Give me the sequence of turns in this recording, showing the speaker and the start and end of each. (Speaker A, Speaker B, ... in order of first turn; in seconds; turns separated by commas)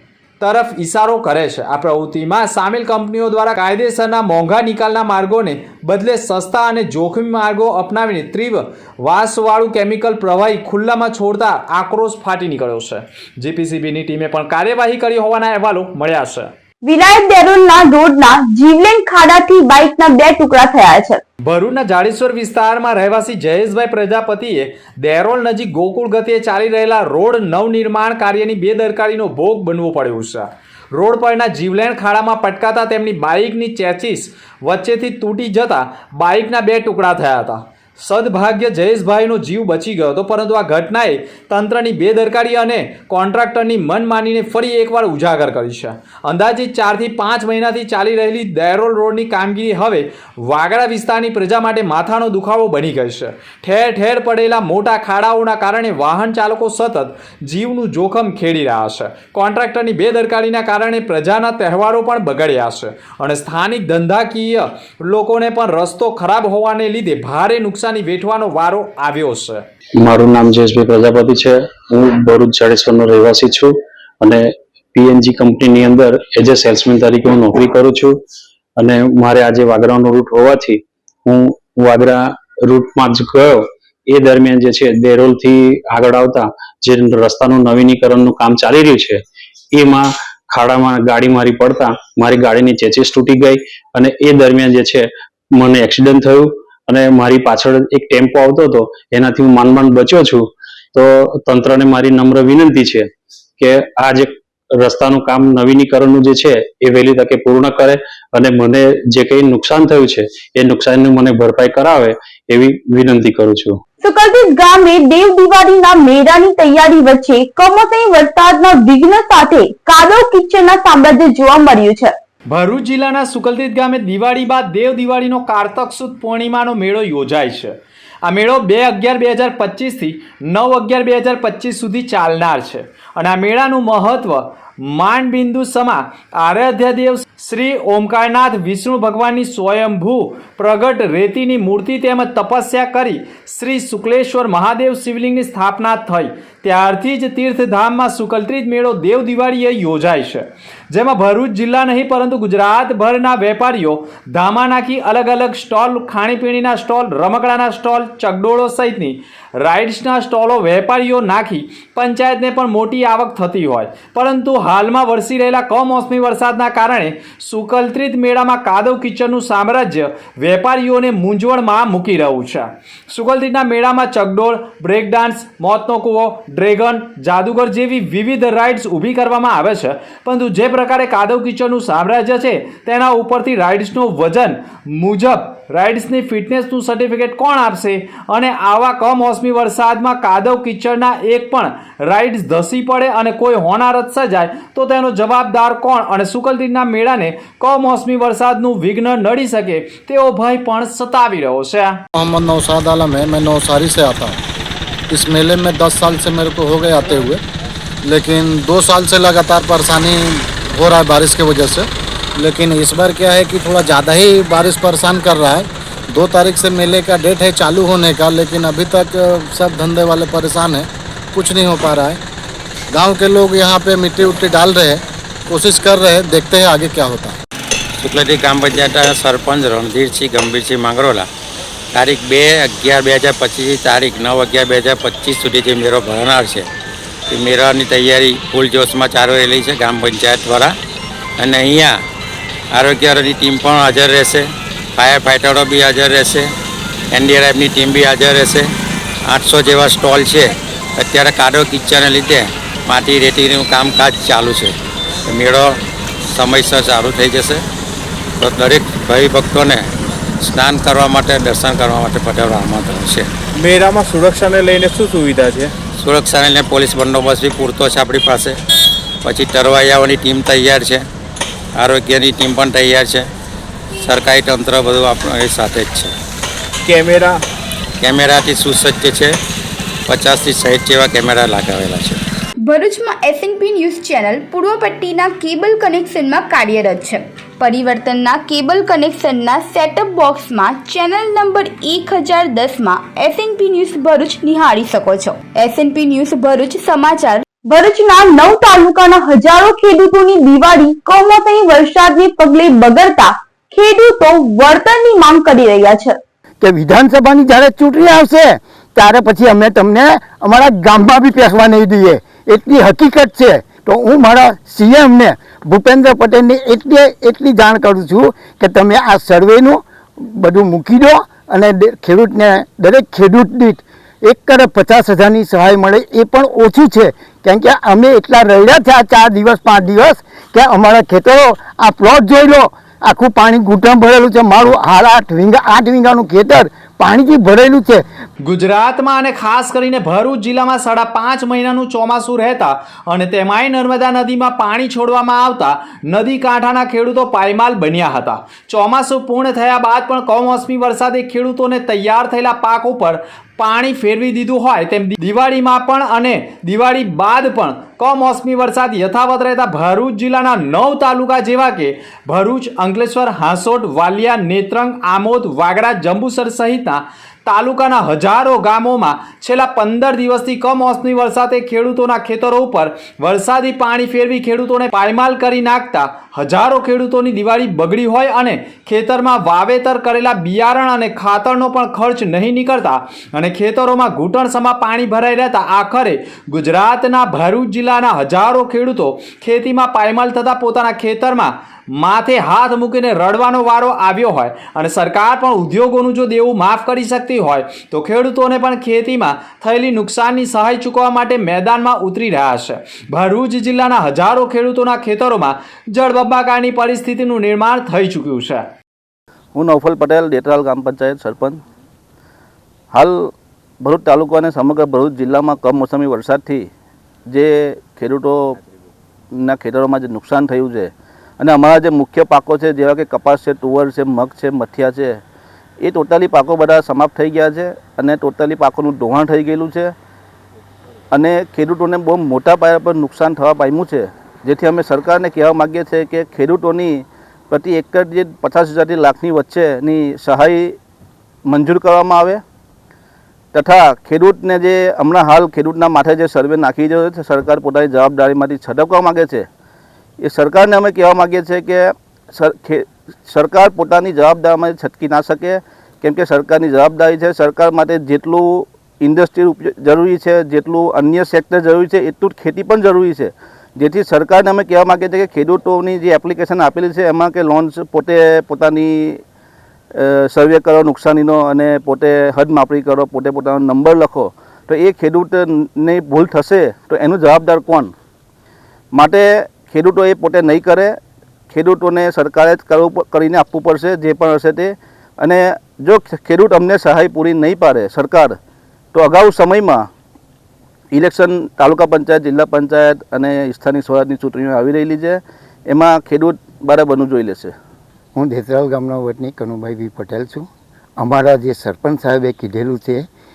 Speaker A: 0.4-16.5, Speaker B: 16.8-21.2, Speaker A: 21.4-69.7, Speaker C: 70.0-78.2, Speaker C: 78.8-89.2, Speaker C: 89.7-113.8, Speaker B: 114.0-122.2, Speaker A: 122.5-202.0, Speaker D: 202.2-204.4, Speaker D: 205.1-207.4, Speaker D: 208.0-222.2, Speaker D: 222.9-227.4, Speaker E: 228.0-231.3, Speaker E: 231.9-236.7, Speaker E: 237.3-240.7, Speaker E: 241.4-242.0, Speaker E: 242.7-246.5, Speaker E: 247.1-248.7, Speaker E: 249.3-254.8, Speaker E: 255.3-255.8, Speaker E: 256.3-257.6, Speaker E: 258.4-259.9, Speaker E: 260.4-263.3, Speaker F: 263.6-265.7, Speaker E: 266.0-268.6, Speaker E: 269.2-271.0, Speaker E: 271.8-273.3, Speaker E: 274.0-276.1, Speaker F: 276.9-277.4, Speaker E: 278.0-279.4, Speaker E: 280.1-282.2, Speaker G: 282.7-297.4, Speaker B: 297.7-306.2, Speaker H: 306.6-338.0, Speaker A: 338.4-408.7, Speaker I: 409.6-411.6, Speaker I: 412.9-416.7, Speaker I: 417.3-418.6, Speaker I: 419.3-425.2, Speaker I: 425.8-429.9, Speaker I: 431.1-440.8, Speaker I: 441.5-442.4, Speaker I: 443.5-449.5, Speaker I: 450.2-469.2, Speaker I: 469.9-477.9, Speaker I: 478.9-481.0, Speaker I: 481.5-488.4, Speaker I: 488.9-489.9, Speaker I: 490.9-497.5, Speaker H: 498.1-503.1